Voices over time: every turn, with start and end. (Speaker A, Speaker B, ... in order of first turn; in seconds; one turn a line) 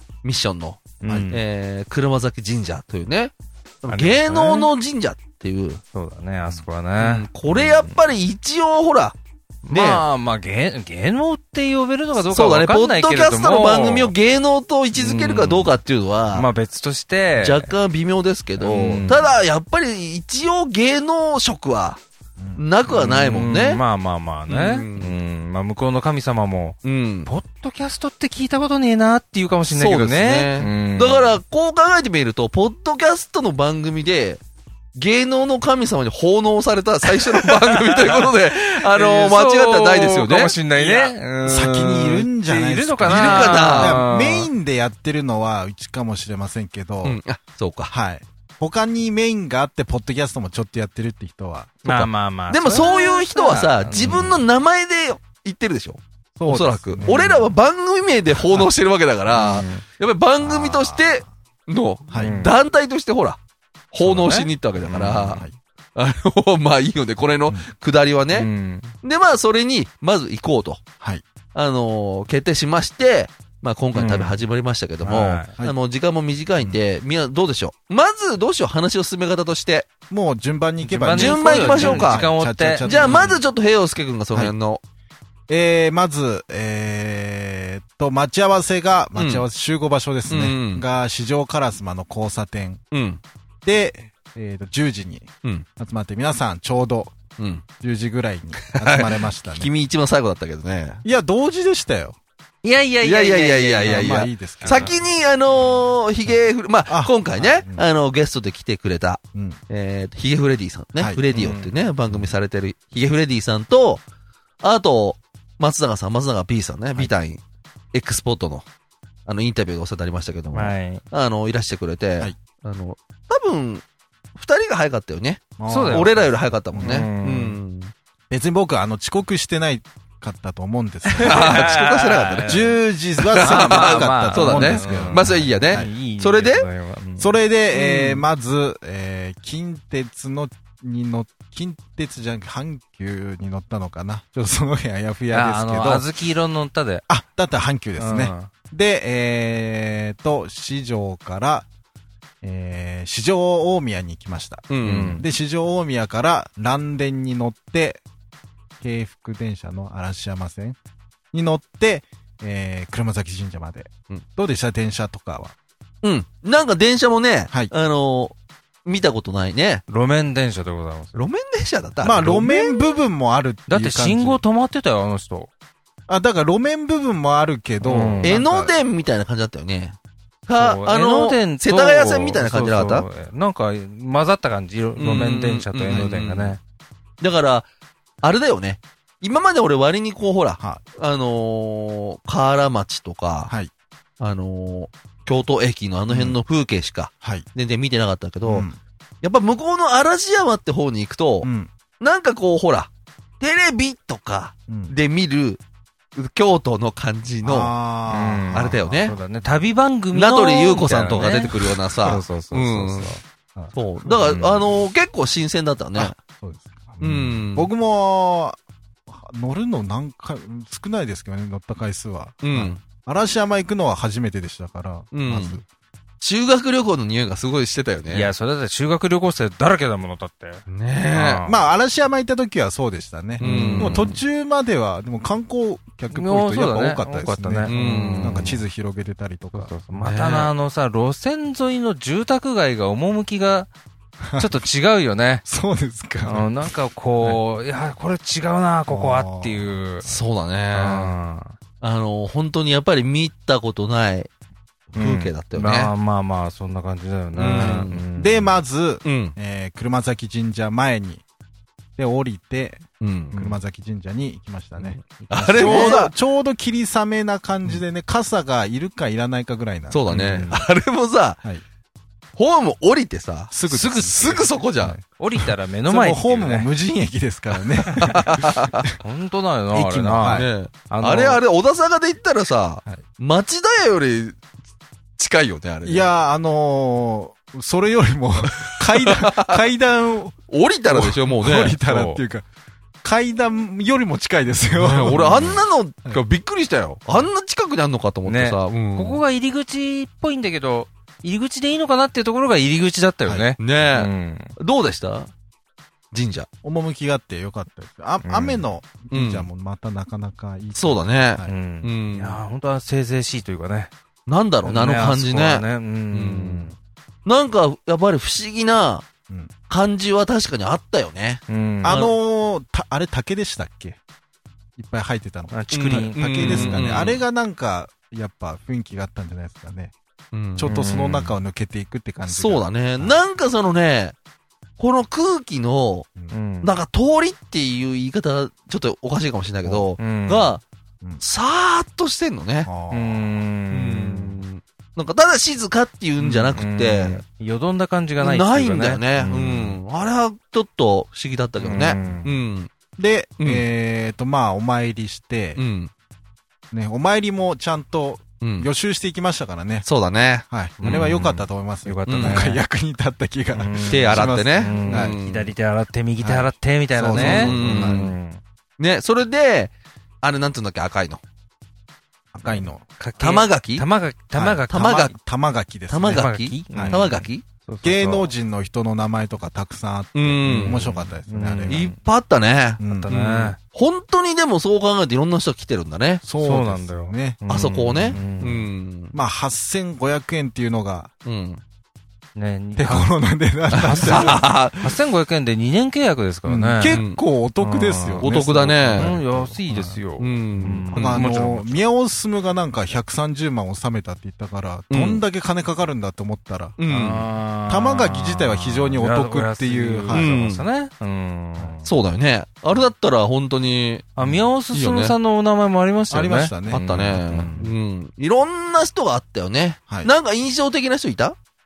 Speaker A: 0.2-5.8
Speaker B: 1.0-1.4
Speaker C: 1.1-1.3
Speaker B: 3.9-4.7
Speaker B: 5.9-8.0
Speaker A: 7.0-9.2
Speaker B: 9.6-14.1
Speaker A: 9.7-10.0
Speaker A: 12.2-16.5
Speaker B: 14.9-15.8
Speaker B: 16.3-17.7
Speaker A: 17.4-22.0
Speaker B: 18.6-19.3
Speaker A: 22.6-23.8
Speaker B: 22.9-31.4
Speaker A: 24.5-25.1
Speaker A: 26.8-27.3
Speaker A: 29.7-34.4
Speaker A: 34.9-41.1
Speaker B: 37.1-44.5
Speaker C: 41.4-47.2
Speaker A: 43.1-44.0
Speaker A: 47.0-47.9
Speaker C: 47.9-51.8
Speaker B: 51.8-54.4
Speaker A: 51.8-63.4
Speaker C: 54.0-54.3
Speaker C: 56.4-57.4
Speaker B: 57.0-57.5
Speaker B: 59.3-59.8
Speaker C: 60.4-61.3
Speaker C: 62.1-62.4
Speaker B: 62.1-62.5
Speaker A: 63.9-65.4
Speaker B: 64.0-65.4
Speaker A: 65.9-68.5
Speaker B: 68.3-68.9
Speaker A: 69.0-70.8
Speaker A: 71.5-79.9
Speaker B: 73.9-74.4
Speaker B: 75.0-75.5
Speaker C: 80.1-83.4
Speaker B: 80.8-83.3
Speaker A: 81.1-82.3
Speaker A: 82.8-84.8
Speaker C: 85.5-92.8
Speaker A: 89.1-89.5
Speaker A: 90.3-90.8
Speaker A: 92.9-93.2
Speaker C: 93.6-97.1
Speaker A: 97.4-97.6
Speaker C: 97.8-99.7
Speaker A: 98.6-101.0
Speaker C: 101.0-102.2
Speaker B: 102.6-105.0
Speaker A: 103.0-114.0
Speaker C: 103.8-104.9
Speaker C: 106.3-107.8
Speaker C: 109.3-109.6
Speaker B: 111.3-111.7
Speaker C: 112.1-112.3
Speaker A: 114.6-117.4
Speaker A: 117.9-118.6
Speaker A: 119.2-127.9
Speaker B: 120.5-121.0
Speaker C: 125.6-127.1
Speaker B: 125.7-126.3
Speaker B: 126.8-127.6
Speaker C: 128.3-131.8
Speaker B: 131.1-132.8
Speaker A: 131.2-132.7
Speaker C: 132.4-135.9
Speaker A: 133.2-136.7
Speaker B: 133.3-138.2
Speaker C: 137.2-146.1
Speaker B: 145.3-147.0
Speaker C: 147.1-151.7
Speaker B: 148.0-148.5
Speaker C: 152.4-158.0
Speaker A: 154.7-155.2
Speaker B: 154.8-155.2
Speaker C: 158.8-160.8
Speaker C: 161.3-165.5
Speaker A: 166.0-169.8
Speaker B: 169.9-171.2
Speaker A: 171.1-172.9
Speaker C: 172.0-174.4
Speaker B: 173.7-175.5
Speaker C: 176.1-178.8
Speaker B: 177.8-178.3
Speaker A: 178.2-183.1
Speaker B: 180.6-186.6
Speaker A: 185.0-186.6
Speaker A: 187.2-187.7
Speaker A: 188.2-193.5
Speaker A: 194.2-198.7
Speaker C: 196.1-196.4
Speaker C: 198.4-198.8
Speaker A: 199.2-205.6
Speaker C: 201.4-201.7
Speaker C: 204.7-204.9
Speaker A: 206.2-207.7
Speaker C: 207.4-209.1
Speaker B: 208.1-213.2
Speaker A: 208.5-209.2
Speaker A: 210.1-213.1
Speaker C: 213.6-214.3
Speaker A: 213.7-216.2
Speaker B: 214.2-214.6
Speaker C: 215.9-225.6
Speaker A: 217.0-217.7
Speaker A: 222.4-222.8
Speaker A: 225.1-225.6
Speaker A: 226.2-228.3
Speaker B: 228.1-231.6
Speaker A: 230.7-231.4
Speaker C: 231.4-239.7
Speaker B: 233.4-234.2
Speaker A: 233.4-234.2
Speaker B: 236.1-238.6
Speaker A: 237.7-238.5
Speaker B: 239.5-243.7
Speaker A: 240.0-240.5
Speaker C: 244.2-244.6
Speaker B: 244.3-245.4
Speaker C: 245.4-246.7
Speaker B: 246.2-250.1
Speaker C: 248.9-249.8
Speaker A: 250.0-251.1
Speaker B: 250.7-251.5
Speaker A: 251.8-254.3
Speaker A: 254.9-255.9
Speaker B: 254.9-258.6
Speaker A: 257.3-258.0
Speaker C: 257.5-261.2
Speaker A: 259.0-259.4
Speaker C: 262.0-270.1
Speaker A: 263.0-263.6
Speaker A: 264.8-266.1
Speaker B: 265.3-266.0
Speaker A: 269.9-271.4
Speaker B: 270.1-270.6
Speaker A: 272.4-275.0
Speaker C: 273.5-278.8
Speaker B: 275.2-276.7
Speaker A: 277.9-278.8
Speaker B: 279.0-281.4
Speaker C: 279.7-280.5
Speaker A: 280.3-284.4
Speaker A: 285.2-286.1
Speaker C: 285.8-290.4
Speaker A: 288.7-289.6
Speaker A: 290.5-291.8
Speaker C: 290.9-292.4
Speaker B: 291.8-292.2
Speaker C: 293.0-296.2
Speaker A: 294.7-299.2
Speaker B: 298.2-304.6
Speaker A: 303.6-305.3
Speaker A: 306.1-306.5
Speaker C: 306.6-311.5
Speaker B: 308.2-308.6
Speaker A: 309.1-309.5
Speaker A: 310.7-312.4
Speaker B: 311.4-313.9
Speaker A: 314.3-316.7
Speaker B: 314.6-316.8
Speaker A: 317.2-319.1
Speaker A: 319.7-322.2
Speaker B: 321.5-322.0
Speaker C: 321.8-324.0
Speaker C: 324.8-329.9
Speaker B: 325.5-327.1
Speaker A: 325.7-327.2
Speaker A: 330.3-330.7
Speaker C: 330.6-333.2
Speaker B: 330.7-331.4
Speaker A: 332.2-334.2
Speaker A: 334.8-336.1
Speaker B: 336.3-336.7
Speaker A: 336.6-340.6
Speaker B: 340.0-340.5
Speaker A: 341.2-342.7
Speaker C: 342.7-343.3
Speaker B: 342.9-344.4
Speaker A: 343.7-347.2
Speaker B: 346.2-349.2
Speaker A: 348.2-352.7
Speaker C: 349.2-349.8
Speaker B: 351.6-352.3
Speaker C: 353.0-355.6
Speaker A: 353.4-353.6
Speaker A: 355.6-355.9
Speaker C: 356.7-359.9
Speaker A: 358.4-358.7
Speaker A: 359.8-361.1
Speaker C: 360.5-365.2
Speaker B: 360.8-362.6
Speaker A: 362.1-362.5
Speaker B: 363.5-368.4
Speaker A: 363.9-365.5
Speaker C: 366.2-368.1
Speaker A: 367.1-368.1
Speaker A: 368.8-371.2
Speaker C: 372.3-372.8
Speaker B: 372.4-375.1
Speaker A: 373.2-373.9
Speaker C: 374.3-377.0
Speaker A: 374.7-375.1
Speaker A: 375.9-377.4
Speaker B: 376.0-378.3
Speaker C: 377.8-381.9
Speaker A: 380.1-380.9
Speaker B: 380.4-382.0
Speaker A: 381.7-386.2
Speaker C: 382.8-383.1
Speaker B: 382.9-383.6
Speaker C: 386.2-388.2
Speaker B: 386.4-388.7
Speaker A: 387.5-389.1
Speaker C: 389.1-391.1
Speaker A: 391.2-391.6
Speaker B: 392.4-393.1
Speaker C: 392.8-394.4
Speaker B: 393.7-397.0
Speaker A: 393.8-394.9
Speaker C: 396.4-400.0
Speaker A: 396.8-397.2
Speaker B: 397.6-398.2
Speaker A: 398.2-399.2
Speaker B: 398.9-401.9
Speaker A: 400.2-401.3
Speaker C: 400.9-406.8
Speaker A: 404.9-405.2
Speaker A: 406.8-407.2
Speaker B: 406.9-411.9
Speaker C: 407.7-410.3
Speaker A: 410.1-410.7
Speaker A: 411.8-414.1
Speaker B: 414.2-417.7
Speaker C: 414.2-414.5
Speaker A: 414.7-415.1
Speaker C: 416.1-417.6
Speaker A: 416.7-421.4